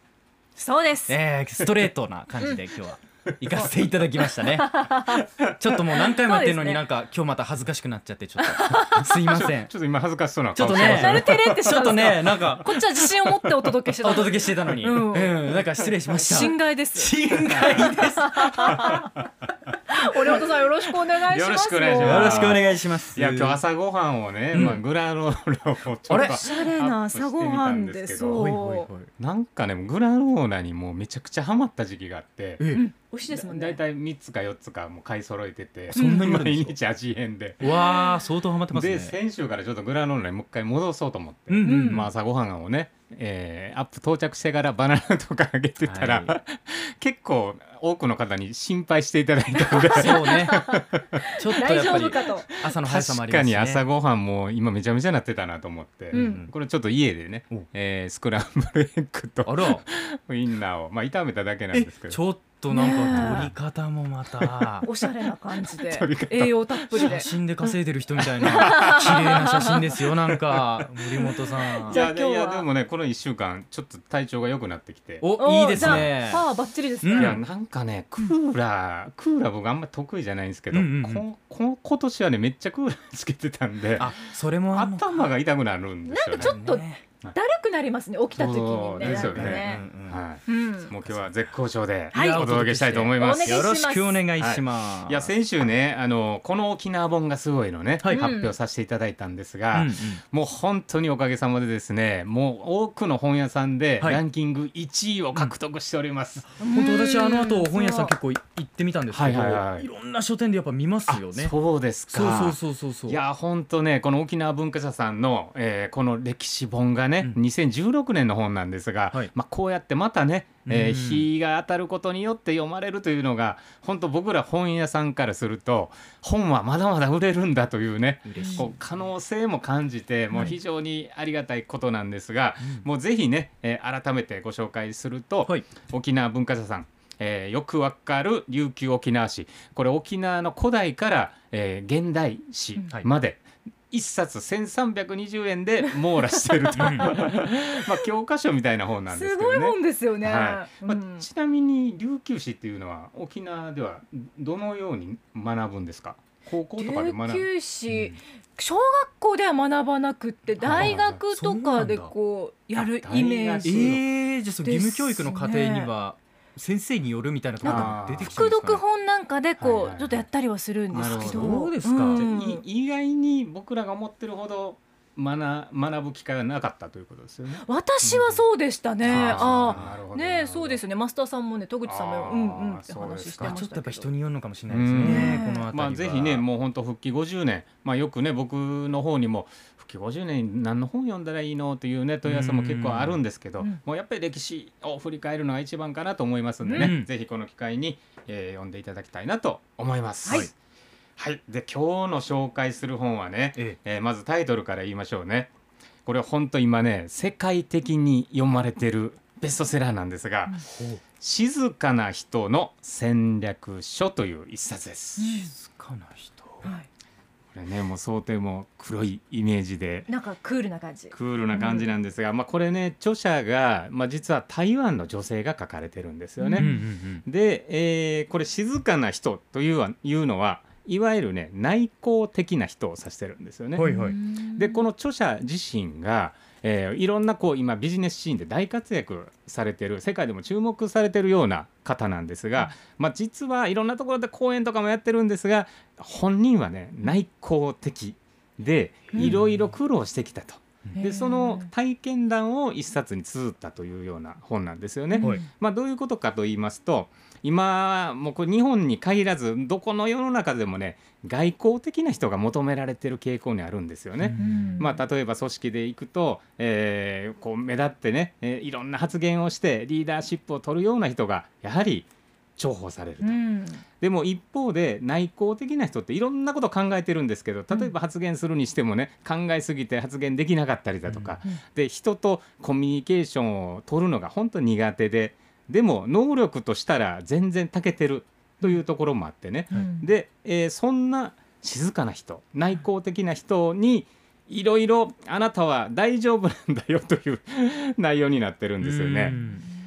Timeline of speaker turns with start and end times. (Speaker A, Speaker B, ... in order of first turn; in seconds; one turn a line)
Speaker A: 0.6-1.1
Speaker B: 1.1-9.7
Speaker A: 4.4-5.2
Speaker A: 6.0-6.8
Speaker A: 8.4-9.0
Speaker C: 9.3-13.7
Speaker B: 10.5-12.8
Speaker A: 10.6-15.4
Speaker B: 14.0-19.0
Speaker A: 16.1-17.1
Speaker C: 17.3-18.1
Speaker A: 17.8-19.1
Speaker C: 18.7-19.2
Speaker A: 19.9-22.6
Speaker C: 21.2-28.5
Speaker B: 22.0-23.6
Speaker B: 24.5-24.8
Speaker B: 26.1-26.4
Speaker A: 26.2-28.9
Speaker B: 28.2-29.1
Speaker C: 29.2-32.6
Speaker B: 32.6-32.8
Speaker A: 32.7-33.8
Speaker C: 33.3-37.7
Speaker B: 35.9-36.8
Speaker A: 36.0-36.3
Speaker B: 37.6-39.1
Speaker A: 37.7-38.1
Speaker C: 38.7-51.2
Speaker B: 41.5-42.1
Speaker A: 41.6-42.1
Speaker B: 45.8-46.3
Speaker A: 49.6-50.7
Speaker B: 49.9-50.7
Speaker A: 51.2-52.5
Speaker B: 51.4-53.8
Speaker C: 51.8-62.2
Speaker A: 56.1-56.4
Speaker B: 56.1-56.5
Speaker B: 59.4-59.8
Speaker B: 61.7-64.8
Speaker A: 62.7-63.5
Speaker C: 63.1-63.5
Speaker C: 64.4-64.7
Speaker A: 64.8-67.3
Speaker C: 65.6-67.2
Speaker B: 66.9-72.0
Speaker C: 68.4-71.2
Speaker A: 68.5-69.8
Speaker A: 71.8-72.7
Speaker C: 71.9-76.1
Speaker B: 75.2-76.4
Speaker A: 75.4-77.4
Speaker B: 77.0-77.4
Speaker C: 77.1-84.2
Speaker B: 80.7-81.2
Speaker B: 84.0-85.1
Speaker C: 84.7-86.6
Speaker A: 86.0-89.8
Speaker B: 86.4-87.0
Speaker C: 88.3-93.7
Speaker B: 89.0-90.2
Speaker A: 90.5-90.9
Speaker B: 91.0-91.3
Speaker A: 92.1-92.5
Speaker B: 92.1-95.3
Speaker A: 93.2-94.3
Speaker C: 94.4-106.5
Speaker B: 98.0-98.3
Speaker A: 98.1-98.5
Speaker B: 99.7-100.2
Speaker B: 106.5-111.5
Speaker A: 106.6-108.1
Speaker C: 109.1-109.9
Speaker C: 111.1-158.2
Speaker B: 112.1-113.2
Speaker B: 120.7-121.3
Speaker B: 128.2-128.8
Speaker B: 132.6-132.9
Speaker B: 146.8-147.2
Speaker A: 149.1-151.2
Speaker A: 156.8-163.8
Speaker B: 160.6-162.1
Speaker C: 160.6-161.2
Speaker C: 162.7-164.1
Speaker B: 163.6-168.8
Speaker A: 164.6-165.9
Speaker C: 167.6-168.4
Speaker A: 167.6-172.6
Speaker C: 169.6-170.3
Speaker C: 170.9-178.4
Speaker B: 170.9-172.2
Speaker A: 177.6-184.1
Speaker C: 179.0-180.8
Speaker B: 179.1-180.0
Speaker C: 181.8-183.6
Speaker B: 183.4-186.4
Speaker C: 184.7-200.5
Speaker A: 185.0-185.6
Speaker B: 192.2-193.2
Speaker A: 196.6-196.9
Speaker B: 196.7-197.1
Speaker C: 201.2-205.5
Speaker C: 206.1-210.6
Speaker B: 210.7-211.0
Speaker C: 211.2-215.3
Speaker A: 215.2-215.5
Speaker B: 215.2-216.7
Speaker C: 217.5-220.1
Speaker A: 220.1-221.9
Speaker C: 221.1-273.4
Speaker A: 226.4-226.7
Speaker B: 226.6-227.2
Speaker B: 233.7-234.2
Speaker A: 233.8-234.8
Speaker B: 249.2-249.4
Speaker A: 251.0-251.7
Speaker A: 255.1-255.4
Speaker B: 264.2-264.7
Speaker A: 264.4-265.0
Speaker A: 273.2-273.8
Speaker C: 274.0-299.4
Speaker B: 281.1-281.4
Speaker A: 289.7-290.1
Speaker B: 298.8-299.7
Speaker A: 299.3-299.6